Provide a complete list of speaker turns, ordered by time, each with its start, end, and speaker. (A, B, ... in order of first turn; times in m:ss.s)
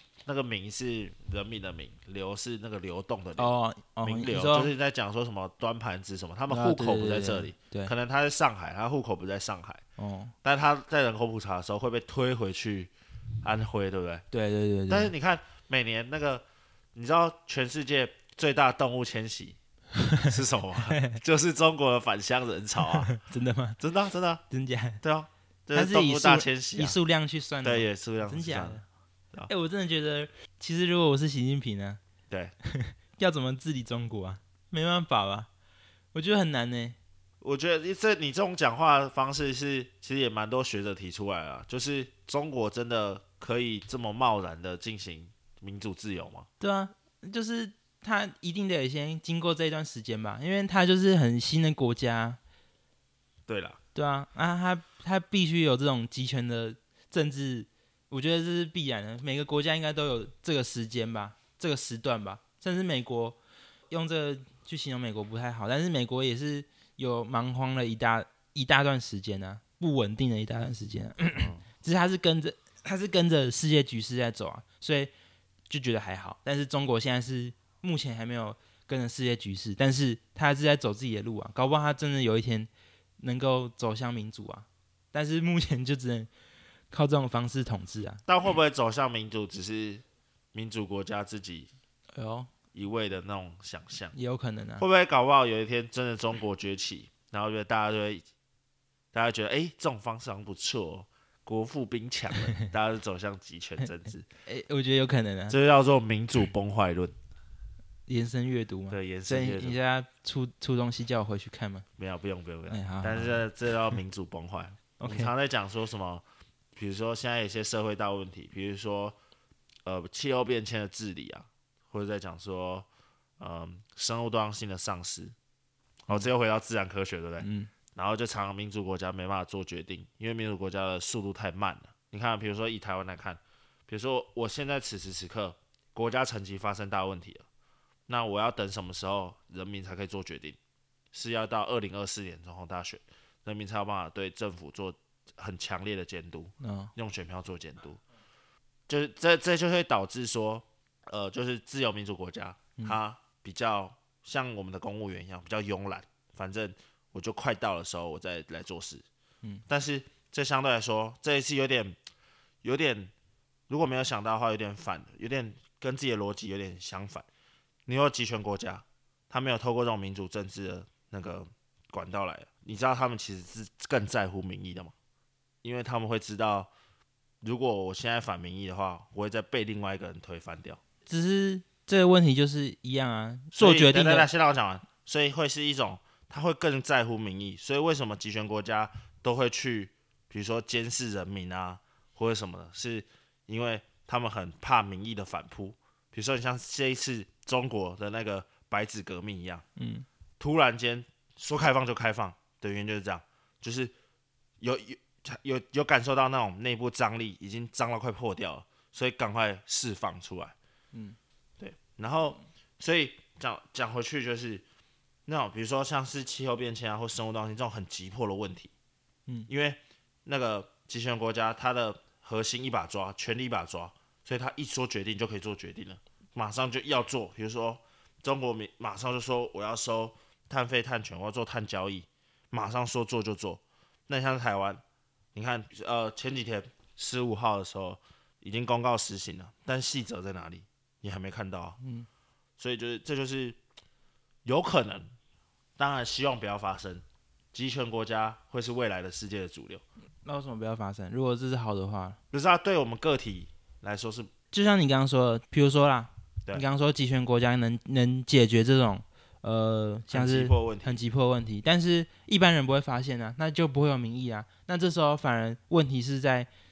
0:00.2-0:09.8 A
0:03.4-0:04.7 B
0:06.5-0:07.9 B
0:10.0-0:10.3 B
0:10.4-0:12.9 A
0:13.4-0:14.2 A
0:14.3-0:15.1 B
0:14.9-0:19.6 A
0:20.0-0:20.3 B
0:20.2-0:23.1 A
0:20.9-0:21.2 B
0:23.0-0:23.8 B
0:23.8-0:24.4 A
0:24.5-0:25.0 B
0:25.0-0:27.0 A
0:25.7-0:28.8 B
0:27.6-0:28.8 A
0:29.5-0:32.0 B
0:32.6-0:35.5 B
0:36.1-0:37.0 B
0:37.4-0:46.5 A
0:46.6-0:52.4 B
0:53.5-0:53.8 A
0:53.9-1:03.4 B
1:03.9-1:15.1 B
1:11.4-1:11.6 A
1:15.7-1:22.7 B
1:23.2-1:26.3 B
1:26.9-1:28.2 B
1:28.2-1:31.7 A
1:32.1-1:32.5 B
1:32.7-1:34.1 A
1:34.1-1:34.8 B
1:34.8-1:38.2 A
1:39.1-1:44.2 A
1:44.4-1:45.6 B
1:45.5-1:47.1 A
1:48.1-1:51.8 B
1:48.9-1:49.8 A
1:52.0-1:56.2 A
1:52.7-1:53.4 B
1:55.0-1:55.3 B
1:56.7-1:59.2 A
1:59.8-2:02.9 A
2:03.4-2:05.3 A
2:06.1-2:17.4 A
2:07.4-2:07.7 B
2:18.1-2:20.6 A
2:21.1-2:28.0 A
2:26.6-2:26.9 B
2:28.9-2:39.0 A
2:39.7-2:42.0 A
2:42.6-2:43.1 A
2:43.7-2:47.2 A
2:47.8-2:54.9 A
2:55.6-2:56.7 A
2:57.4-3:00.8 A
3:01.1-3:04.3 B
3:03.5-3:19.6 A
3:19.8-3:20.0 B
3:20.4-3:23.9 A
3:24.6-3:30.5 A
3:31.6-3:34.6 A
3:35.2-3:38.7 A
3:39.5-3:54.8 A
3:55.3-4:01.8 A
4:01.8-4:02.1 B
4:02.6-4:03.6 A
4:04.4-4:05.1 A
4:05.8-4:09.8 A
4:10.2-4:12.2 B
4:12.3-4:14.3 A
4:14.5-4:26.5 B
4:20.1-4:21.0 A